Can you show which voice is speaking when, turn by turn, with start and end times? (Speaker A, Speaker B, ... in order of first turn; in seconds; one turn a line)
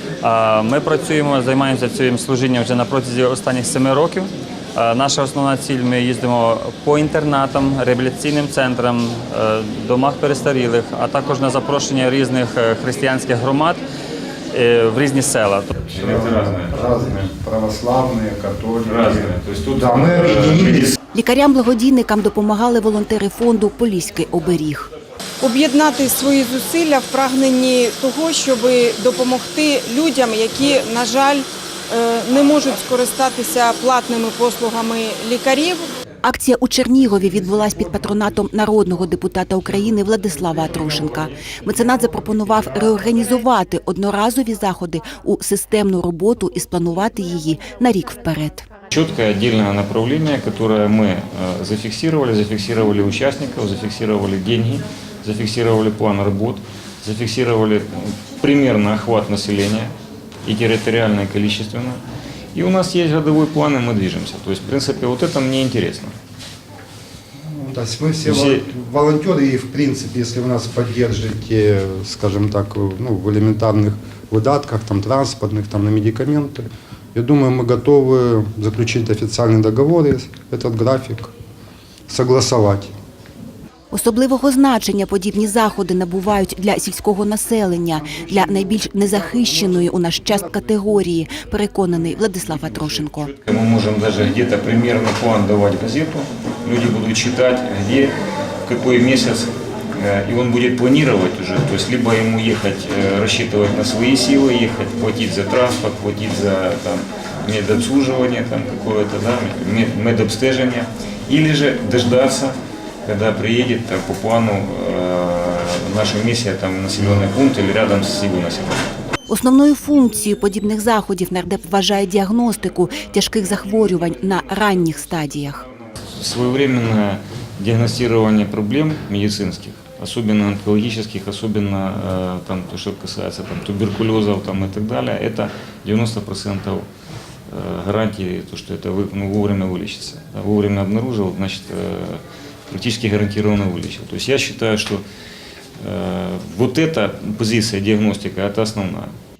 Speaker A: 0.2-13.8
Speaker A: 14.5-15.7
Speaker B: 15.8-17.2
Speaker C: 15.9-20.9
Speaker B: 18.8-20.9
Speaker D: 21.1-24.9
Speaker E: 25.4-35.9
Speaker D: 36.2-48.6
Speaker B: 48.9-59.9
Speaker B: 60.4-62.0
Speaker B: 62.5-66.1
Speaker C: 67.3-81.3
Speaker B: 68.2-68.7
Speaker C: 82.1-82.9
Speaker D: 83.9-93.3
Speaker B: 93.4-112.5
Speaker B: 113.0-118.8
Speaker D: 119.3-125.6
Speaker B: 126.1-136.9
Speaker B: 137.5-145.0
Speaker B: 145.8-149.1